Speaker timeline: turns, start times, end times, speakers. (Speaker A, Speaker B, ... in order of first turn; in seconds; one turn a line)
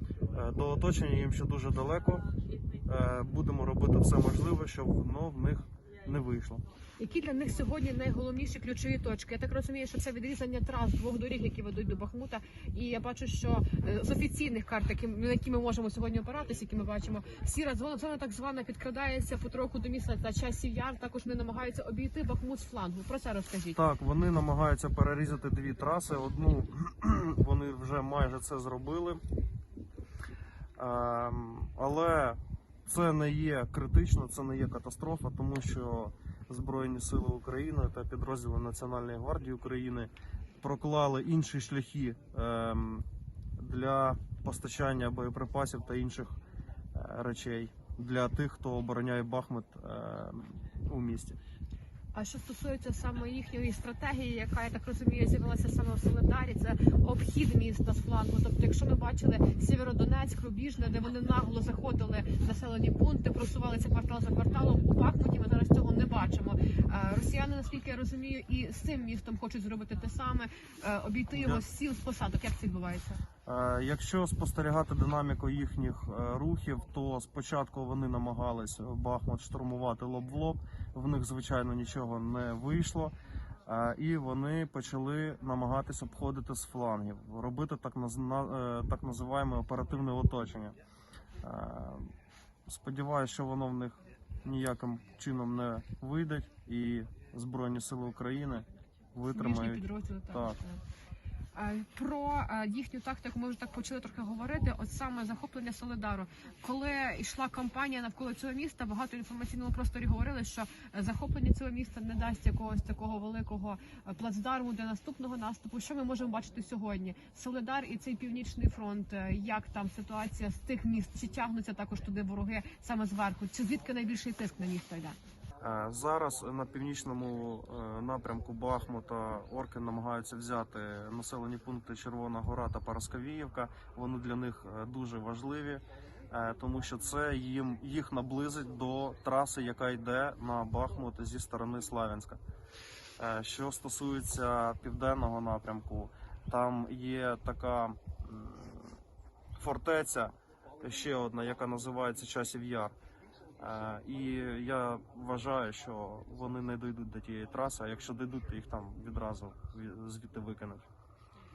Speaker A: 0.3-2.2
Speaker A: 2.9-6.6
Speaker B: 7.0-23.8
Speaker A: 23.7-29.2
Speaker A: 30.8-40.1
Speaker A: 40.6-43.0
Speaker A: 43.6-46.4
Speaker A: 46.9-51.4
Speaker B: 52.1-73.2
Speaker A: 71.3-71.6
Speaker A: 73.5-83.1
Speaker A: 83.7-90.8
Speaker A: 91.4-92.1
Speaker A: 92.7-100.6
Speaker B: 99.3-100.8
Speaker B: 101.5-125.2
Speaker A: 125.6-142.4
Speaker A: 143.2-149.0
Speaker A: 149.6-152.9
Speaker A: 153.6-160.8